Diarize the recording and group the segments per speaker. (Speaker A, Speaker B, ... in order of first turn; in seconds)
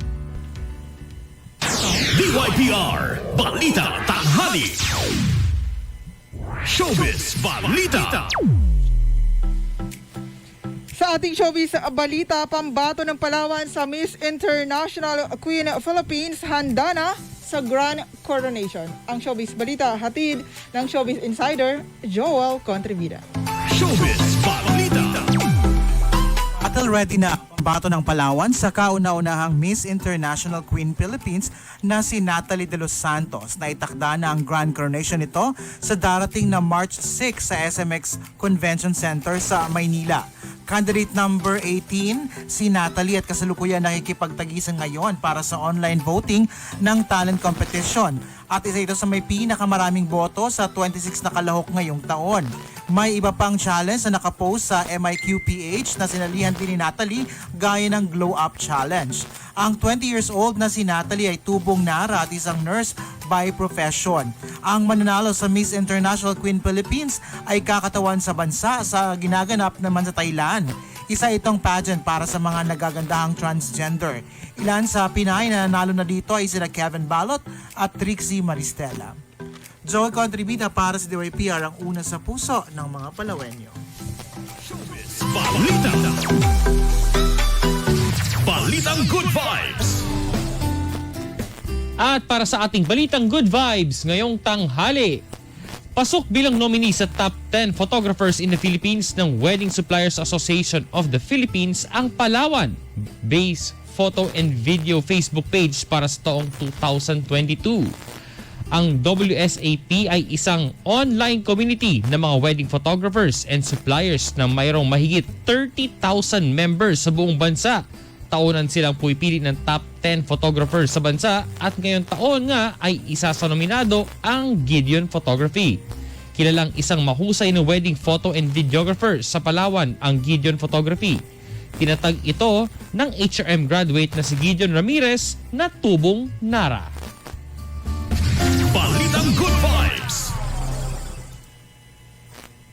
Speaker A: 2.1-4.8, 6.7-8.3, 23.7-25.3, 84.6-86.3, 88.4-89.8, 138.7-140.3
Speaker B: 10.9-23.2
Speaker C: 26.6-79.2, 79.9-83.7
Speaker D: 92.0-95.2, 95.9-107.9, 108.7-125.8, 126.3-131.2, 131.8-136.9